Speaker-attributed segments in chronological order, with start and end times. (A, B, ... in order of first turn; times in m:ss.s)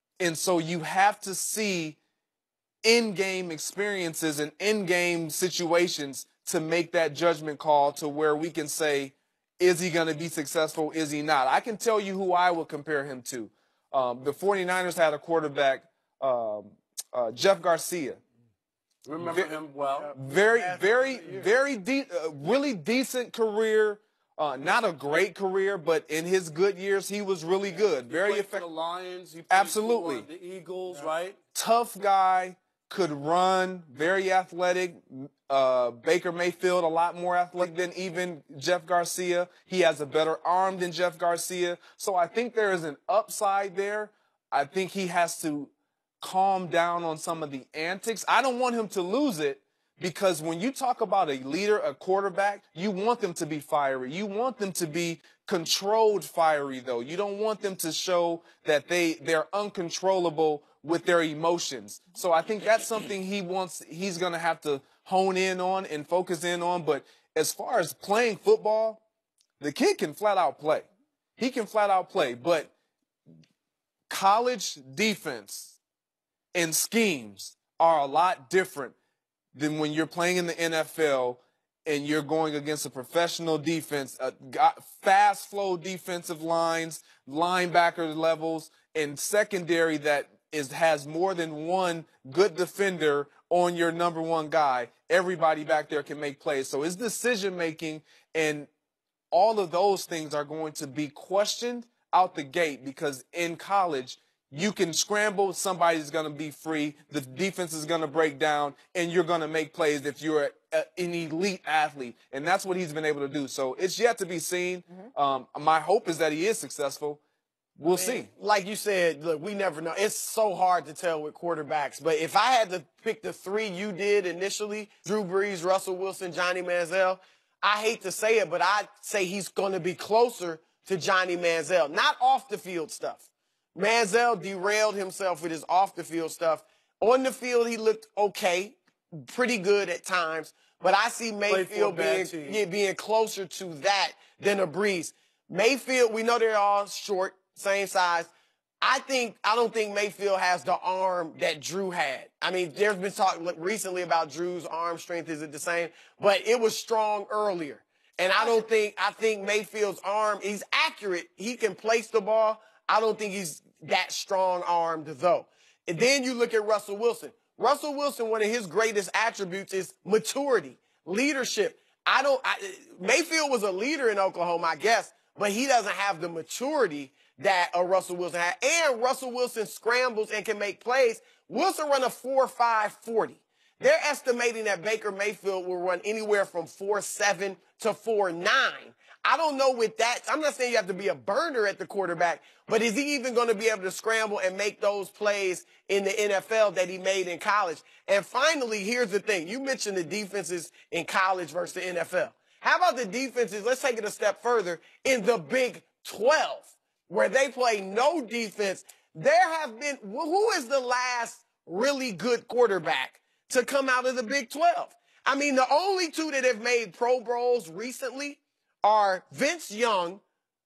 0:00.2-0:02.0 A
0:02.8-0:18.2 A
0:19.0-0:20.1 B
0:19.2-0:19.5 A
0:19.9-0:21.5 C
0:20.1-0:28.6 A
0:27.7-0:31.4 B
0:29.5-0:30.3 A
0:31.5-1:09.0 A
1:09.6-1:10.9 A
1:11.4-1:12.7 A
1:14.1-1:15.8 A
1:16.5-1:18.9 A
1:19.5-1:38.7 A
1:39.3-1:57.2 A
1:57.8-1:58.3 A
1:57.9-2:13.2 C
2:13.7-2:28.3 C
2:21.5-2:22.6 B
2:28.8-3:40.2 C